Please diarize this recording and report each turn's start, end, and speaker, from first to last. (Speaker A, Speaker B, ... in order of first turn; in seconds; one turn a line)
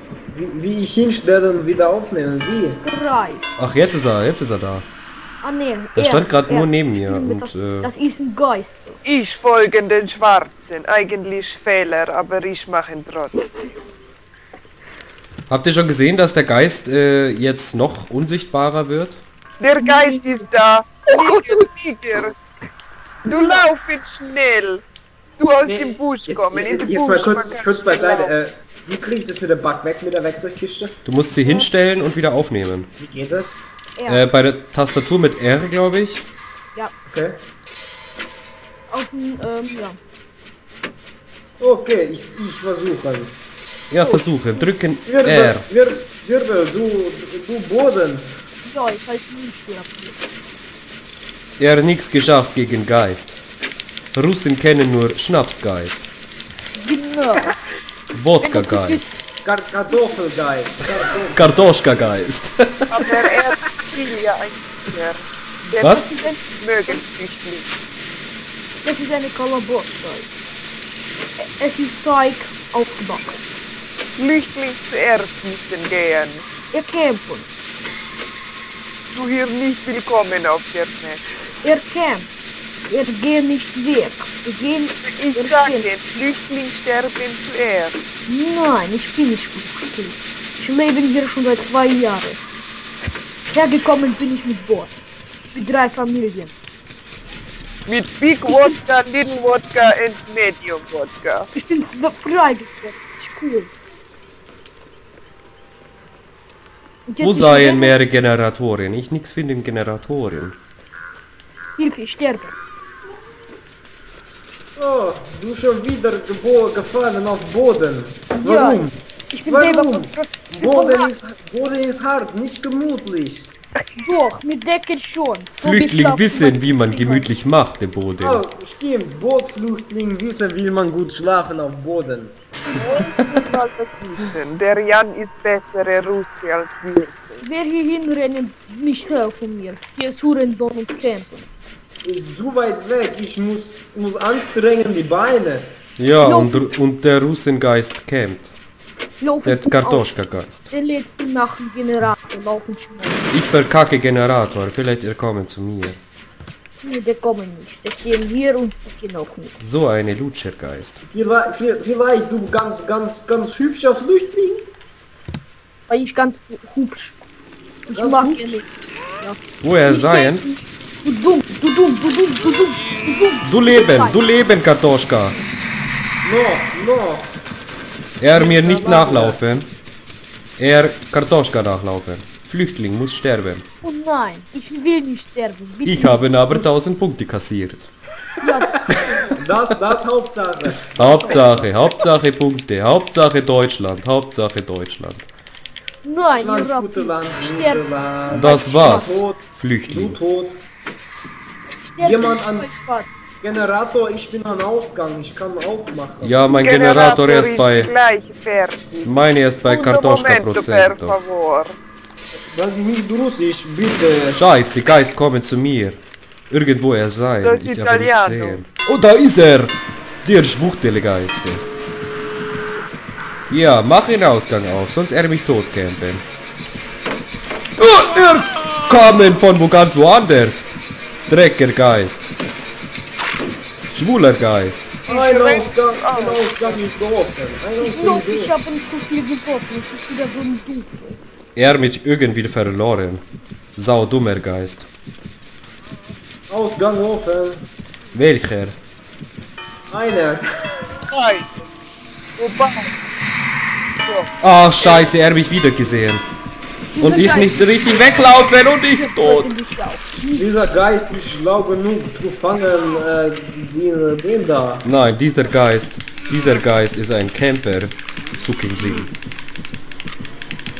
Speaker A: 0.3-2.8
Speaker B: 2.8-3.5
Speaker C: 3.6-4.8
Speaker B: 5.4-9.0
Speaker C: 5.9-7.9
Speaker D: 9.0-13.5
Speaker C: 15.5-19.2
Speaker D: 19.6-22.3
Speaker B: 19.8-20.4
Speaker B: 21.1-21.6
Speaker D: 23.2-24.8
Speaker B: 23.2-23.6
Speaker D: 25.4-28.3
Speaker A: 25.6-31.0
Speaker C: 31.1-32.9
Speaker B: 31.4-31.7
Speaker A: 33.0-33.6
Speaker B: 34.0-34.3
Speaker C: 34.1-36.2
Speaker A: 37.1-37.4
Speaker B: 38.9-40.0
Speaker A: 41.6-43.4
Speaker C: 43.9-45.6
Speaker B: 44.0-44.7
Speaker A: 45.0-48.3
Speaker B: 48.6-50.2
Speaker C: 51.6-53.4
Speaker C: 54.1-56.1
Speaker B: 56.7-57.6
Speaker C: 58.1-59.2
Speaker B: 58.4-59.0
Speaker A: 59.4-61.7
Speaker C: 61.3-62.9
Speaker D: 62.9-67.7
Speaker C: 65.8-66.1
Speaker B: 65.9-66.3
Speaker B: 68.8-70.3
Speaker B: 71.4-73.4
Speaker D: 74.2-76.4
Speaker B: 76.7-77.5
Speaker D: 79.1-81.2
Speaker B: 81.6-82.3
Speaker B: 82.9-85.9
Speaker D: 85.0-88.0
Speaker B: 88.3-92.4
Speaker B: 93.5-94.9
Speaker B: 95.5-96.5
Speaker D: 97.9-101.5
Speaker B: 98.4-98.7
Speaker B: 101.5-103.7
Speaker B: 107.1-107.9
Speaker C: 107.2-110.6
Speaker B: 111.8-112.5
Speaker A: 114.8-123.5
Speaker B: 118.3-121.1
Speaker B: 124.0-127.3
Speaker C: 125.6-128.4
Speaker A: 128.2-132.3
Speaker D: 132.7-137.4
Speaker B: 137.4-141.5
Speaker A: 142.0-145.7
Speaker C: 146.0-148.5
Speaker B: 146.2-146.7
Speaker B: 149.2-150.1
Speaker C: 149.4-150.7
Speaker B: 150.7-153.3
Speaker C: 153.3-156.0
Speaker B: 156.8-159.6
Speaker C: 159.6-161.0
Speaker A: 161.0-164.6
Speaker B: 165.9-167.2
Speaker B: 167.9-168.7
Speaker A: 167.9-168.6
Speaker B: 169.2-174.3
Speaker C: 169.6-170.4
Speaker C: 173.4-175.4
Speaker A: 176.2-177.4
Speaker C: 178.2-179.7
Speaker A: 178.3-179.4
Speaker C: 180.6-183.6
Speaker B: 183.8-186.7
Speaker C: 185.8-187.9
Speaker B: 188.4-189.1
Speaker A: 189.3-191.7
Speaker C: 190.9-195.3
Speaker B: 196.0-199.2
Speaker A: 196.3-200.6
Speaker C: 198.3-200.2
Speaker B: 201.8-203.1
Speaker A: 202.0-202.7
Speaker A: 203.4-206.4
Speaker C: 206.2-207.9
Speaker D: 206.5-208.9
Speaker C: 209.0-211.2
Speaker D: 209.6-211.7
Speaker A: 212.5-214.4
Speaker C: 214.3-221.6
Speaker D: 217.4-218.6
Speaker C: 223.5-226.2
Speaker C: 227.8-230.7
Speaker C: 231.3-232.3
Speaker C: 233.9-235.0
Speaker D: 235.1-236.8
Speaker A: 235.1-238.5
Speaker B: 237.8-241.2
Speaker C: 241.6-243.2
Speaker C: 243.8-244.9
Speaker A: 246.5-247.7
Speaker C: 248.1-248.8
Speaker A: 249.9-250.8
Speaker D: 251.1-251.6
Speaker D: 252.4-252.9
Speaker D: 254.0-255.1
Speaker C: 254.4-256.2
Speaker B: 256.9-260.5
Speaker C: 257.0-259.5
Speaker A: 260.3-264.9
Speaker C: 264.8-269.1